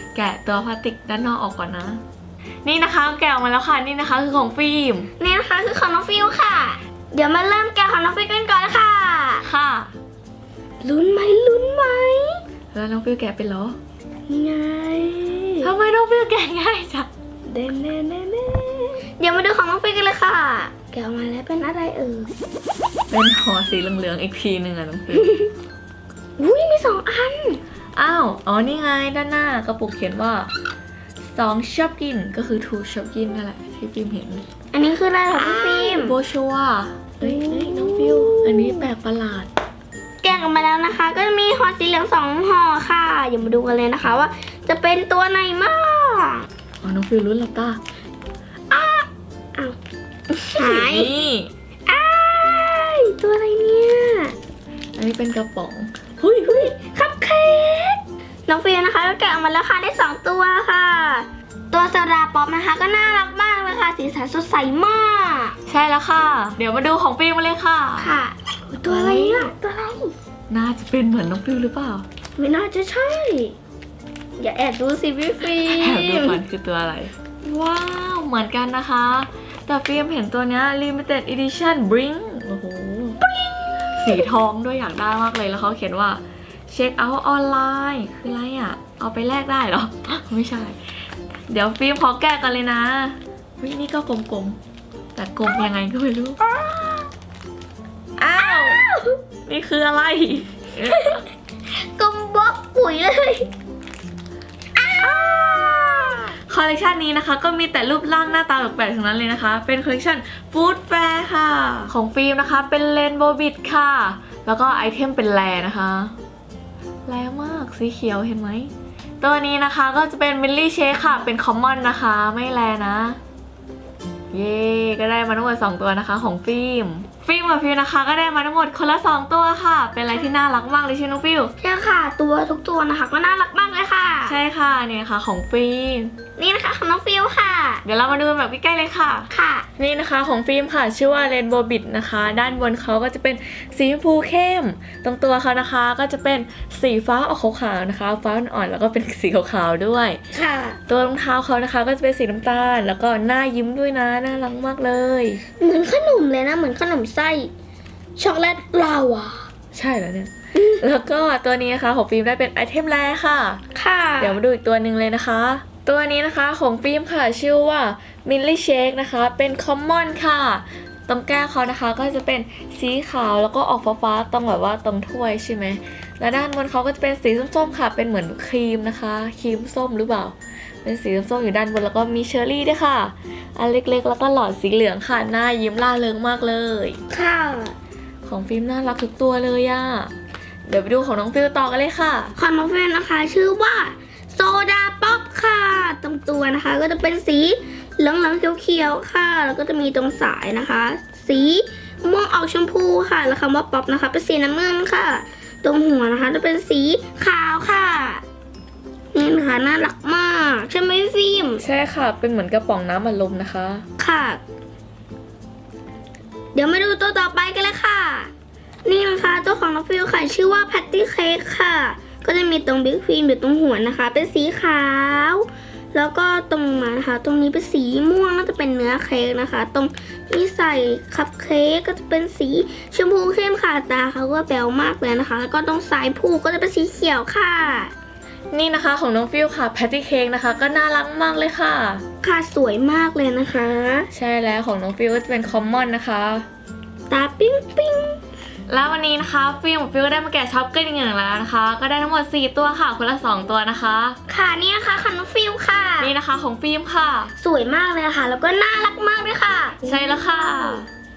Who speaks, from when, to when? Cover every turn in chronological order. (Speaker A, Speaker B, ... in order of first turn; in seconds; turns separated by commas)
Speaker A: 0.1-2.0, Speaker A: 2.6-5.1, Speaker B: 5.2-9.4, Speaker A: 9.4-9.9, Speaker B: 10.8-12.4, Speaker A: 12.7-13.8, Speaker B: 14.3-15.7, Speaker A: 15.6-17.1, Speaker B: 17.5-22.3, Speaker A: 23.1-25.4, Speaker B: 25.1-25.5, Speaker B: 26.4-27.6, Speaker A: 27.9-30.5, Speaker A: 31.3-34.4, Speaker B: 34.7-36.1, Speaker A: 35.3-39.5, Speaker B: 37.2-38.9, Speaker B: 40.2-46.5, Speaker A: 46.8-47.8, Speaker B: 48.7-49.8, Speaker B: 50.5-51.1, Speaker A: 50.5-51.5, Speaker B: 51.9-54.3, Speaker A: 55.0-56.7, Speaker B: 56.4-65.5, Speaker A: 65.7-68.1, Speaker B: 68.0-70.1, Speaker A: 68.9-69.5, Speaker A: 70.5-72.0, Speaker B: 72.4-73.5, Speaker B: 74.4-76.4, Speaker A: 75.6-83.2, Speaker A: 83.9-90.8, Speaker A: 91.5-94.6, Speaker A: 95.1-96.4, Speaker B: 96.4-97.1, Speaker B: 98.2-99.2, Speaker A: 98.3-98.8, Speaker A: 99.5-101.2, Speaker B: 100.8-103.5, Speaker B: 104.8-106.4, Speaker A: 106.5-116.1, Speaker A: 117.1-123.2, Speaker A: 124.3-131.5, Speaker B: 131.6-134.4, Speaker A: 134.2-136.1, Speaker B: 136.4-137.8, Speaker A: 137.8-150.2, Speaker B: 139.3-139.7, Speaker B: 150.3-150.8, Speaker A: 150.9-155.4, Speaker B: 155.6-157.5, Speaker B: 158.2-159.5, Speaker A: 159.7-163.6, Speaker B: 160.5-160.8, Speaker B: 163.7-164.4, Speaker A: 164.2-187.0, Speaker B: 187.1-187.7, Speaker A: 188.2-190.1, Speaker A: 190.7-192.3, Speaker B: 192.3-208.2, Speaker B: 209.1-211.6, Speaker A: 211.6-213.8, Speaker B: 214.0-214.4, Speaker B: 216.5-218.3, Speaker B: 218.8-237.9, Speaker A: 238.5-242.0, Speaker B: 242.2-244.1, Speaker A: 244.1-246.4, Speaker B: 247.1-248.2, Speaker A: 248.7-254.2, Speaker B: 254.3-256.1, Speaker A: 256.0-257.3, Speaker B: 257.4-259.8, Speaker A: 259.8-260.9